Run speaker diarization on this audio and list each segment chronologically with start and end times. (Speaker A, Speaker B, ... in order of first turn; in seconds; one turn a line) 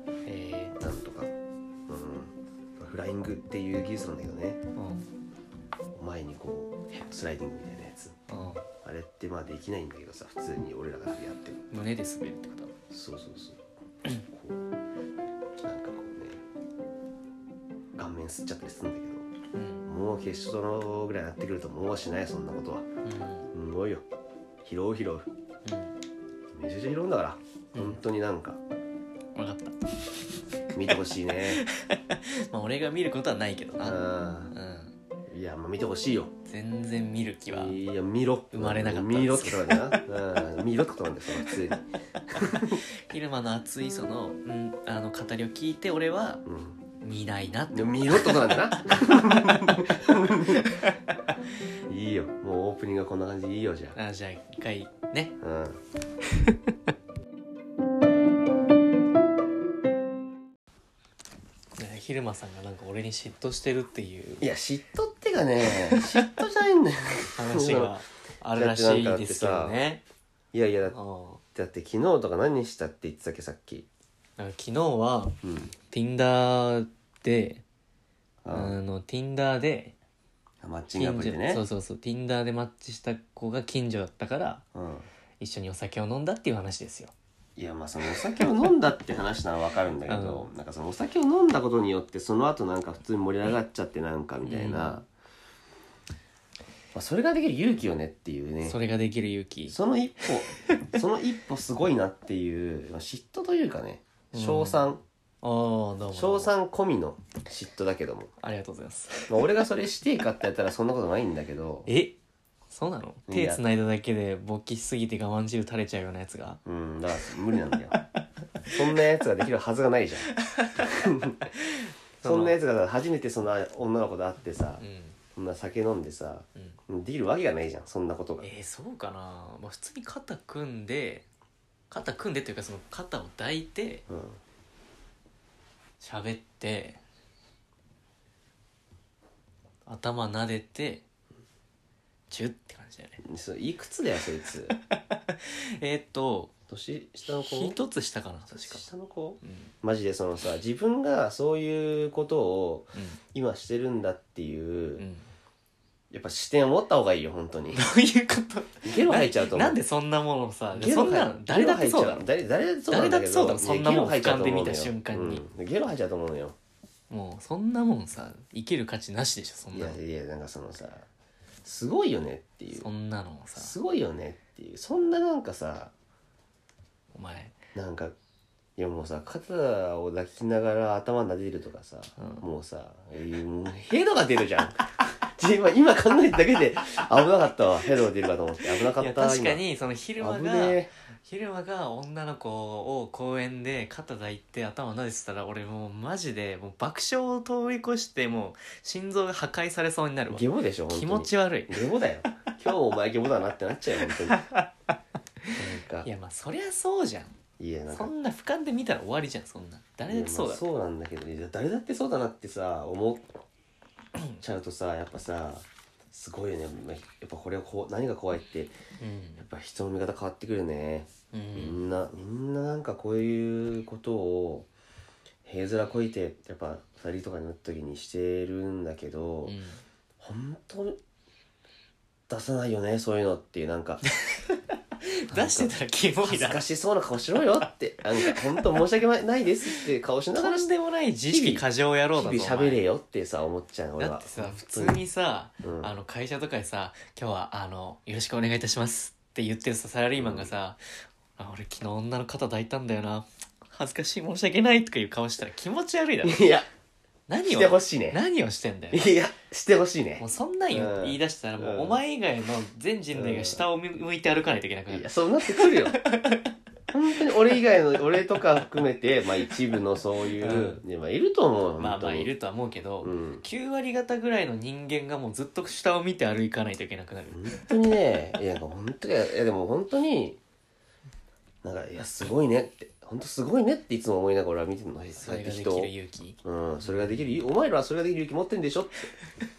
Speaker A: 0.2-0.8
Speaker B: 0.8-1.3
Speaker B: 1.9-4.6
Speaker A: 4.7-5.0
Speaker B: 5.9-8.2
Speaker A: 8.3-8.6
Speaker B: 8.8-11.6
Speaker A: 11.7-12.7
Speaker B: 12.9-13.6
Speaker B: 14.2-14.6
Speaker B: 15.6-16.4
Speaker B: 17.9-19.3
Speaker A: 19.5-19.9
Speaker B: 19.9-22.9
Speaker A: 23.0-23.5
Speaker B: 23.5-24.0
Speaker B: 24.6-25.3
Speaker A: 25.6-25.9
Speaker B: 26.5-28.6
Speaker A: 27.7-28.0
Speaker A: 29.4-29.9
Speaker B: 30.7-31.6
Speaker A: 31.4-34.9
Speaker B: 33.8-34.5
Speaker B: 35.3-36.3
Speaker A: 36.5-37.8
Speaker B: 37.5-42.8
Speaker A: 38.5-40.0
Speaker A: 42.6-46.4
Speaker B: 46.5-46.8
Speaker A: 47.0-51.0
Speaker B: 47.7-50.9
Speaker B: 51.9-54.0
Speaker A: 53.9-55.4
Speaker B: 55.4-55.8
Speaker A: 56.3-56.7
Speaker A: 61.8-64.5
Speaker B: 64.4-68.0
Speaker A: 65.9-66.2
Speaker A: 67.3-70.0
Speaker B: 68.5-69.8
Speaker B: 70.5-71.0
Speaker A: 70.9-71.4
Speaker B: 71.5-73.9
Speaker A: 74.4-75.4
Speaker B: 75.4-75.7
Speaker A: 75.9-77.6
Speaker B: 78.4-78.8
Speaker A: 78.5-79.9
Speaker B: 80.6-81.6
Speaker A: 80.9-84.6
Speaker B: 84.7-85.1
Speaker A: 85.4-87.1
Speaker B: 87.5-95.0
Speaker A: 90.1-90.5
Speaker A: 94.4-95.0
Speaker B: 96.9-98.8
Speaker A: 98.6-99.8
Speaker B: 99.7-105.0
Speaker A: 104.3-104.9
Speaker A: 105.4-106.5
Speaker B: 106.1-108.3
Speaker A: 108.4-109.4
Speaker B: 109.3-111.9
Speaker A: 111.8-112.2
Speaker A: 112.7-116.6
Speaker B: 113.3-113.6
Speaker B: 116.6-118.0
Speaker B: 118.7-121.4
Speaker A: 120.3-120.9
Speaker A: 121.5-122.6
Speaker B: 122.2-124.8
Speaker A: 124.8-125.2
Speaker B: 125.3-128.5
Speaker A: 128.4-131.3
Speaker A: 131.9-134.0
Speaker B: 134.1-134.4
Speaker A: 136.0-137.0
Speaker A: 139.8-141.0
Speaker A: 142.3-143.2
Speaker B: 143.2-144.7
Speaker A: 144.7-146.5
Speaker B: 146.7-147.8
Speaker A: 147.2-148.8
Speaker B: 148.5-155.1
Speaker A: 149.4-149.7
Speaker A: 152.9-153.2
Speaker A: 155.0-155.3
Speaker B: 156.1-157.8
Speaker A: 157.7-162.3
Speaker B: 158.8-159.8
Speaker B: 160.7-166.6
Speaker A: 162.9-165.4
Speaker A: 167.1-170.0
Speaker B: 169.7-171.1
Speaker B: 171.6-172.9
Speaker A: 172.7-173.7
Speaker B: 173.6-175.9
Speaker A: 177.1-177.6
Speaker B: 177.7-178.2
Speaker B: 178.8-189.6
Speaker A: 182.2-182.4
Speaker A: 188.9-201.8
Speaker B: 190.2-190.9
Speaker B: 200.3-204.5
Speaker A: 204.3-204.6
Speaker A: 205.4-207.4
Speaker B: 205.5-206.1
Speaker B: 207.6-208.1
Speaker A: 207.9-210.6
Speaker B: 210.1-213.3
Speaker B: 214.4-218.7
Speaker A: 219.0-219.4
Speaker B: 219.4-224.7
Speaker A: 221.3-221.9
Speaker B: 225.4-229.6
Speaker A: 229.4-229.8
Speaker B: 230.2-231.0
Speaker B: 232.3-234.0
Speaker A: 234.2-236.6
Speaker B: 235.3-240.7
Speaker A: 240.3-242.8
Speaker B: 241.3-245.0
Speaker A: 244.0-250.8
Speaker B: 245.6-245.9
Speaker B: 250.2-250.5
Speaker A: 251.4-256.5
Speaker B: 256.2-256.6
Speaker A: 257.3-259.1
Speaker B: 257.4-258.2
Speaker B: 258.9-262.0
Speaker A: 260.2-266.5
Speaker B: 263.1-263.6
Speaker B: 264.9-266.0
Speaker B: 266.9-272.3
Speaker A: 270.4-270.8
Speaker A: 271.8-277.7
Speaker B: 273.0-273.4
Speaker B: 277.3-280.4
Speaker B: 281.6-285.9
Speaker A: 285.1-287.2
Speaker B: 286.4-289.1